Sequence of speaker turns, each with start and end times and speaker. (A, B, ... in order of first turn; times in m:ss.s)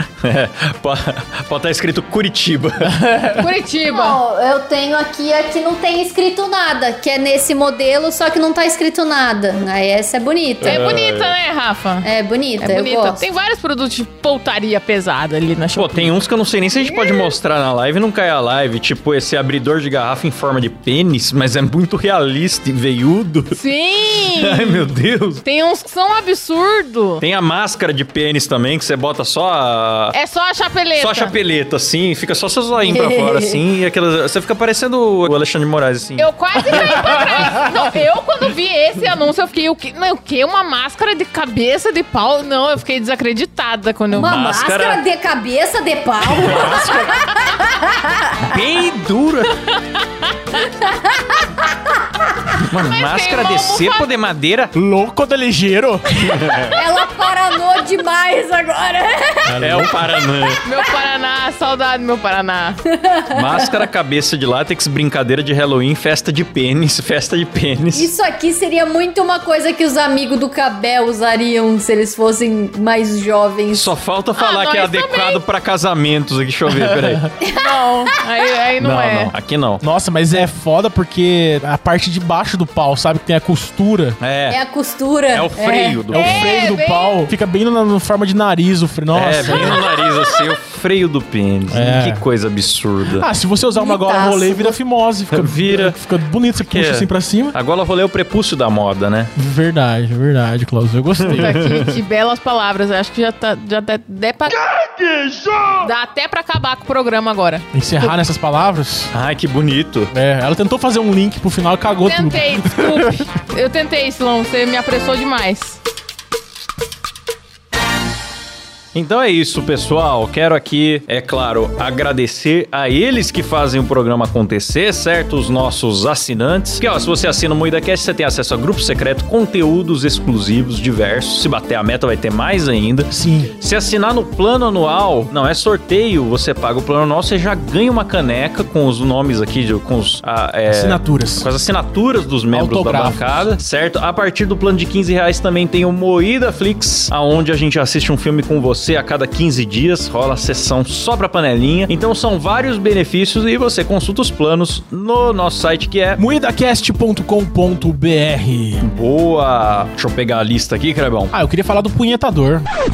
0:00.2-0:03.0 A
0:02.8-0:03.4 B
0:03.4-0:04.2 C
0:03.8-0:10.9 D
0:10.6-0:11.3 A
0:10.6-0:12.1 C
0:12.0-0:13.3 D
0:12.6-0:16.1 C
0:15.8-0:23.6 A
0:23.5-0:24.9 C
0:24.2-0:25.4 A
0:25.4-0:27.2 C
0:27.2-0:30.2 A
0:30.1-0:31.3 C
0:31.0-0:37.6 A
0:32.8-0:33.6 D
0:36.2-0:44.4 C
0:44.1-0:48.6 D
0:44.2-0:45.0 A
0:46.3-0:46.9 A
0:46.4-0:47.2 B
0:48.4-0:49.6 A
0:49.6-0:50.6 C
0:50.6-0:51.8 D
0:52.6-0:54.7 A
0:52.9-0:54.1 C
0:54.7-0:56.8 B
0:56.3-0:56.8 A
0:56.7-1:00.6 D
0:59.5-1:00.0 B
0:59.6-1:00.6 A
1:00.6-1:02.8 C
1:02.9-1:03.9 D
1:03.3-1:08.1 A
1:07.9-1:13.9 D
1:13.7-1:17.2 A
1:14.4-1:15.4 C
1:16.7-1:17.3 B
1:17.4-1:17.8 D
1:17.6-1:19.3 C
1:18.8-1:19.8 A
1:19.8-1:24.2 B
1:24.2-1:24.6 A
1:24.5-1:26.0 D
1:25.3-1:26.5 A
1:26.1-1:29.8 B
1:26.1-1:27.3 C
1:29.1-1:33.3 A
1:29.5-1:30.5 D
1:31.7-1:32.2 B
1:33.2-1:37.6 B
1:33.8-1:34.8 D
1:35.3-1:36.0 A
1:36.7-1:39.3 A
1:39.4-1:41.6 B
1:41.2-1:42.0 A
1:41.3-1:44.6 C
1:44.7-1:45.8 A
1:45.8-1:48.2 C
1:47.7-1:49.1 B
1:49.1-1:50.1 A
1:50.1-1:53.2 B
1:52.0-1:55.8 C
1:58.9-2:36.2 A
2:13.1-2:13.5 B
2:20.7-2:21.5 B
2:22.5-2:23.5 B
2:36.2-2:38.8 B
2:38.8-2:41.3 A
2:41.3-2:42.7 B